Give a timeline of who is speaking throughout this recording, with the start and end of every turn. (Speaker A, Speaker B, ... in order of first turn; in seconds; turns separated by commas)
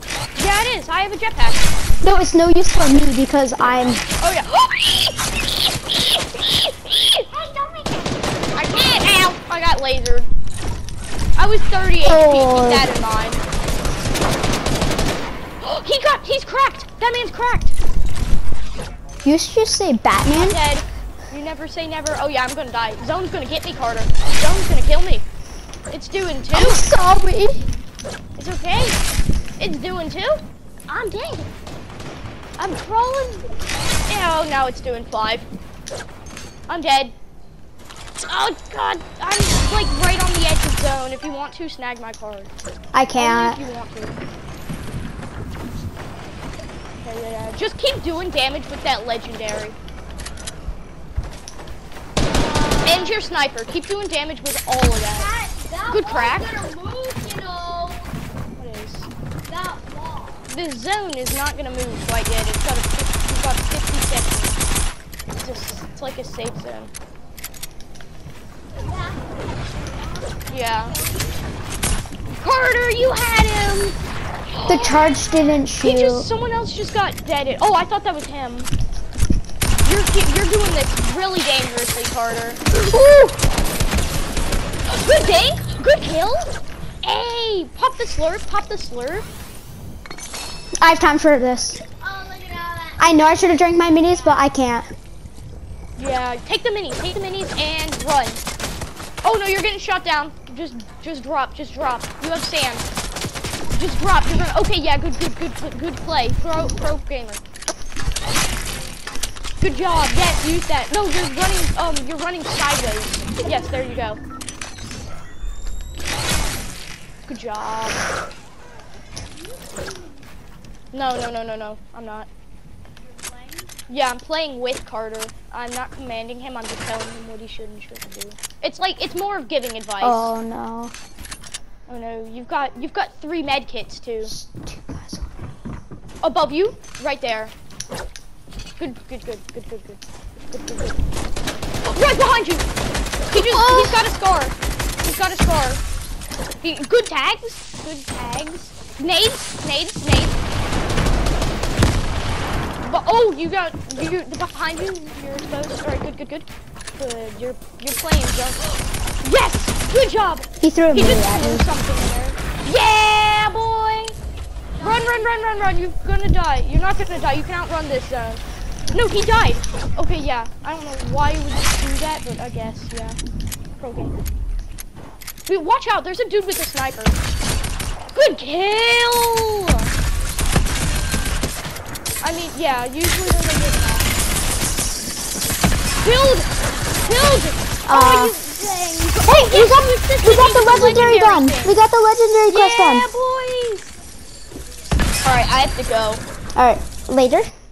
Speaker A: 0.3-1.7, Speaker B: 2.0-4.0, Speaker A: 4.2-7.2, Speaker C: 7.3-8.9, Speaker A: 8.5-10.3, Speaker A: 11.4-13.4, Speaker B: 12.0-12.9, Speaker A: 15.6-17.7, Speaker B: 19.2-20.6, Speaker A: 20.3-25.2, Speaker A: 25.9-26.8, Speaker B: 26.5-27.6, Speaker A: 28.4-29.0, Speaker A: 29.6-31.5, Speaker A: 32.6-33.5, Speaker A: 34.1-35.5, Speaker A: 36.7-37.1, Speaker A: 38.2-42.5, Speaker B: 42.9-43.6, Speaker A: 43.1-44.2, Speaker A: 47.0-49.8, Speaker C: 52.2-53.1, Speaker A: 52.8-55.3, Speaker C: 55.2-58.1, Speaker A: 55.9-56.6, Speaker A: 58.6-59.1, Speaker C: 59.5-60.4, Speaker A: 60.5-64.6, Speaker A: 65.4-66.9, Speaker C: 68.8-71.5, Speaker A: 70.5-71.0, Speaker A: 72.4-74.0, Speaker A: 74.5-75.1, Speaker B: 74.7-76.3, Speaker C: 75.0-75.6, Speaker A: 75.8-78.7, Speaker A: 79.8-83.3, Speaker A: 84.9-89.2, Speaker B: 90.8-91.8, Speaker C: 92.0-93.4, Speaker B: 93.0-94.9, Speaker C: 94.1-94.4, Speaker A: 96.0-98.4, Speaker A: 99.2-102.8, Speaker A: 103.7-107.4, Speaker A: 109.6-114.2, Speaker A: 117.3-118.1, Speaker C: 119.5-120.1, Speaker A: 120.9-122.3, Speaker C: 123.3-123.6, Speaker A: 123.9-130.3, Speaker B: 130.0-130.9, Speaker A: 131.9-134.3, Speaker B: 134.2-135.3, Speaker A: 136.2-137.5, Speaker A: 138.8-141.0, Speaker A: 141.8-142.7, Speaker A: 143.3-145.8, Speaker B: 143.3-144.0, Speaker A: 146.6-150.4, Speaker A: 152.8-164.1, Speaker B: 160.6-161.7, Speaker A: 164.8-173.2, Speaker A: 173.8-174.1, Speaker A: 175.5-177.2, Speaker A: 178.1-179.9, Speaker A: 182.2-184.1, Speaker A: 186.0-191.8, Speaker B: 187.8-188.3, Speaker B: 189.2-193.1, Speaker A: 192.5-193.9, Speaker A: 195.2-196.2, Speaker B: 196.6-197.5